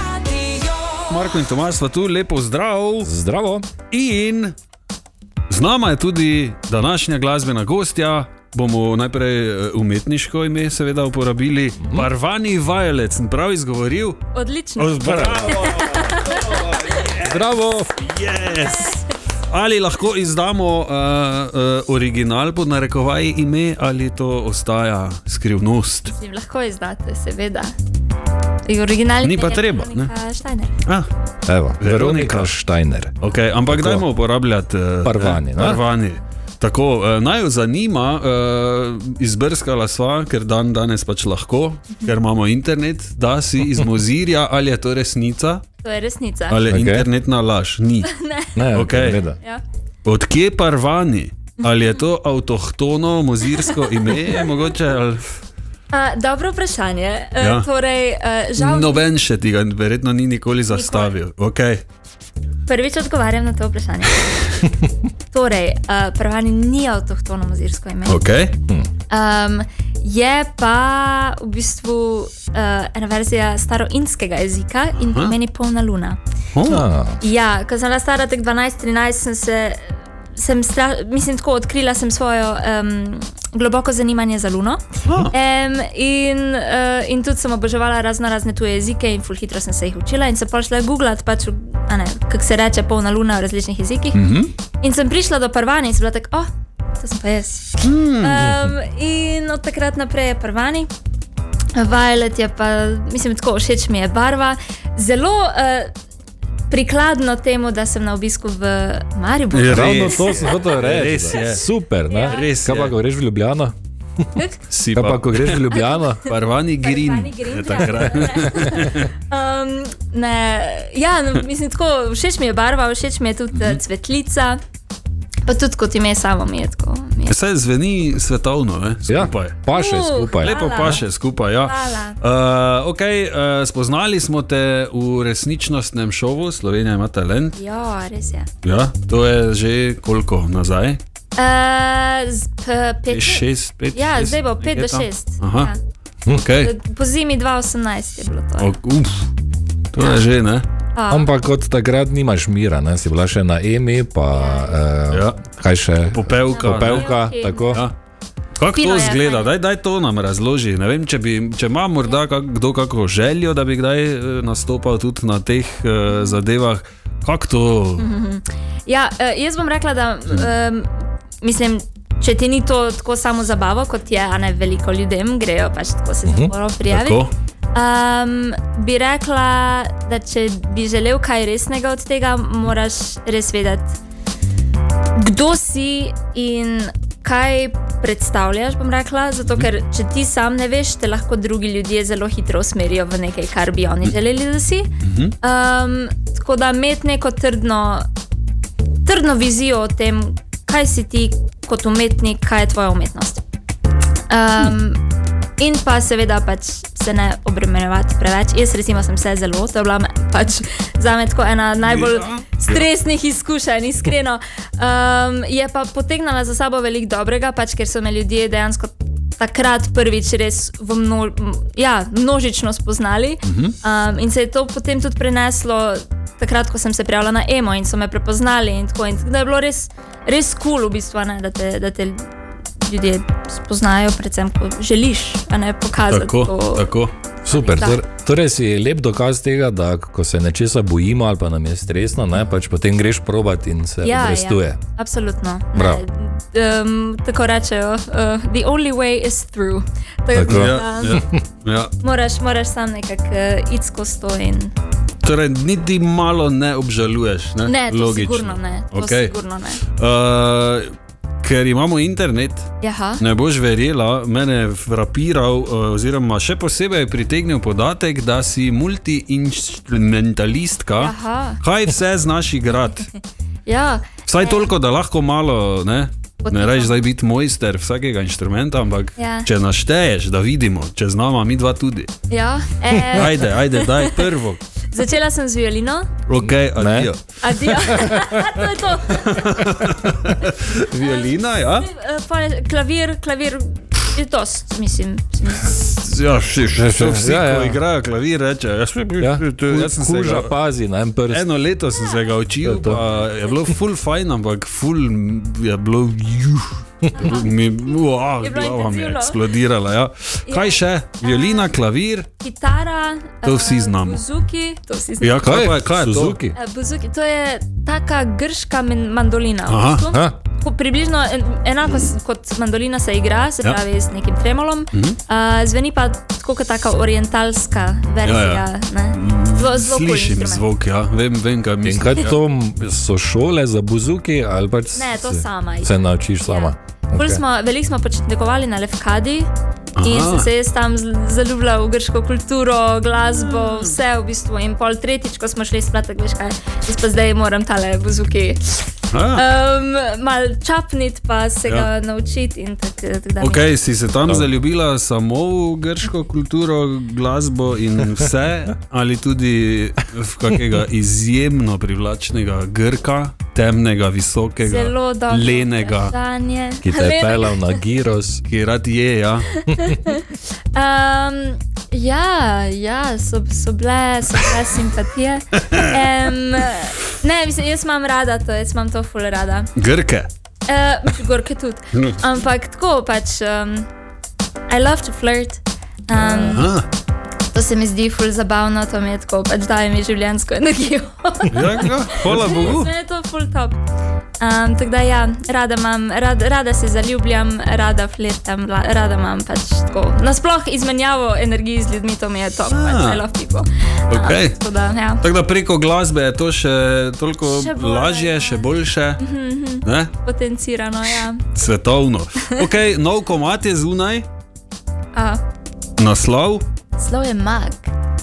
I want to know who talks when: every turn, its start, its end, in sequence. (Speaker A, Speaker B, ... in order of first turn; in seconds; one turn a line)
Speaker A: 1.1-3.1
Speaker B: 3.0-3.7
Speaker A: 3.9-4.5
Speaker A: 5.5-14.2
Speaker B: 11.8-12.1
Speaker C: 14.3-17.1
Speaker A: 14.8-17.5
Speaker B: 15.0-15.7
Speaker B: 17.2-18.1
Speaker A: 18.0-26.1
Speaker C: 26.1-27.7
Speaker C: 28.7-30.7
Speaker A: 29.2-30.1
Speaker B: 31.5-33.1
Speaker A: 31.8-32.5
Speaker A: 33.2-45.6
Speaker B: 33.7-34.0
Speaker B: 35.0-35.8
Speaker C: 45.8-46.6
Speaker A: 46.5-48.1
Speaker B: 46.7-47.1
Speaker C: 48.0-48.6
Speaker B: 48.6-49.4
Speaker A: 48.7-49.2
Speaker A: 50.0-55.2
Speaker C: 51.6-52.0
Speaker C: 53.5-54.1
Speaker C: 55.9-59.0
Speaker A: 57.4-57.7
Speaker A: 58.6-61.8
Speaker C: 60.7-61.2
Speaker C: 62.7-64.5
Speaker C: 65.3-68.2
Speaker A: 68.1-68.6
Speaker C: 69.1-76.2
Speaker A: 75.0-75.4
Speaker A: 76.5-76.9
Speaker B: 76.7-77.2
Speaker C: 77.2-94.2
Speaker A: 85.0-85.3
Speaker A: 94.1-94.5
Speaker C: 94.8-100.9
Speaker A: 97.8-98.5
Speaker C: 101.8-105.9
Speaker C: 106.7-110.8
Speaker A: 109.5-111.6
Speaker B: 109.7-113.7
Speaker C: 112.1-112.5
Speaker A: 112.2-113.0
Speaker C: 114.3-114.6
Speaker A: 114.7-119.1
Speaker B: 115.0-116.2
Speaker C: 115.7-124.6
Speaker A: 123.5-123.8
Speaker C: 125.5-127.4
Speaker A: 127.3-129.6
Speaker B: 129.1-131.0
Speaker C: 129.7-131.0
Speaker A: 130.4-137.6
Speaker C: 131.6-132.2
Speaker C: 137.6-138.5
Speaker A: 138.6-141.0
Speaker C: 141.4-145.8
Speaker A: 143.1-145.7
Speaker A: 146.3-146.7
Speaker C: 146.6-148.8
Speaker A: 148.6-149.3
Speaker A: 149.9-150.7
Speaker C: 150.9-151.3
Speaker B: 151.1-157.8
Speaker C: 154.3-154.8
Speaker A: 155.1-155.4
Speaker A: 156.1-157.1
Speaker C: 156.5-157.8
Speaker A: 158.6-168.1
Speaker C: 158.7-159.6
Speaker C: 166.1-166.4
Speaker C: 168.0-184.0
Speaker B: 176.3-176.5
Speaker A: 176.9-177.3
Speaker C: 185.2-194.9
Speaker A: 195.0-195.3
Speaker C: 195.4-198.1
Speaker C: 199.1-203.4
Speaker C: 204.3-205.0
Speaker C: 205.6-236.9
Speaker A: 211.8-212.8
Speaker A: 223.4-223.8
Speaker A: 236.1-237.1
Speaker B: 237.5-244.8
Speaker C: 237.5-238.0
Speaker C: 244.0-251.2
Speaker B: 245.7-246.0
Speaker B: 250.3-251.4
Speaker A: 250.4-251.9
Speaker C: 252.0-254.7
Speaker A: 255.2-259.3
Speaker C: 257.6-259.8
Speaker A: 259.9-273.1
Speaker C: 262.8-263.2
Speaker C: 271.0-271.6
Speaker C: 273.7-274.7
Speaker A: 274.3-282.1
Speaker C: 276.4-277.0
Speaker C: 279.2-279.5
Speaker C: 282.3-284.3
Speaker A: 283.1-284.6
Speaker C: 284.8-286.1
Speaker A: 286.3-287.4
Speaker B: 286.4-287.1
Speaker C: 287.4-289.6
Speaker B: 287.7-288.4
Speaker A: 289.1-291.9
Speaker C: 291.0-295.9
Speaker A: 295.7-300.5
Speaker B: 296.7-297.8
Speaker B: 299.2-301.4
Speaker A: 301.3-312.3
Speaker B: 302.6-303.0
Speaker C: 307.1-307.5
Speaker C: 308.4-309.4
Speaker C: 310.5-311.7
Speaker C: 312.4-315.5
Speaker A: 313.4-314.2
Speaker A: 315.2-316.4
Speaker B: 315.4-316.6
Speaker C: 316.5-330.6
Speaker A: 319.7-320.1
Speaker B: 320.1-320.4
Speaker A: 324.9-325.2
Speaker A: 328.2-332.4
Speaker B: 331.8-337.4
Speaker C: 334.9-339.5
Speaker A: 340.0-340.5
Speaker C: 340.0-353.7
Speaker A: 343.2-344.0
Speaker A: 349.1-349.4
Speaker A: 353.4-366.1
Speaker C: 364.6-367.8
Speaker B: 366.8-368.4
Speaker A: 368.4-369.6
Speaker C: 369.5-379.7
Speaker A: 379.8-380.3
Speaker C: 380.7-383.9
Speaker A: 381.9-382.2
Speaker C: 384.7-386.7
Speaker B: 386.1-386.7
Speaker A: 386.5-386.9
Speaker C: 387.5-393.8
Speaker A: 391.5-392.9
Speaker C: 394.4-405.2
Speaker A: 402.7-403.2
Speaker A: 404.1-404.6
Speaker A: 405.2-409.2
Speaker C: 407.5-408.6
Speaker C: 409.2-411.4
Speaker A: 409.9-410.1
Speaker A: 411.5-414.3
Speaker C: 415.1-415.4
Speaker A: 416.0-416.6
Speaker C: 417.0-417.9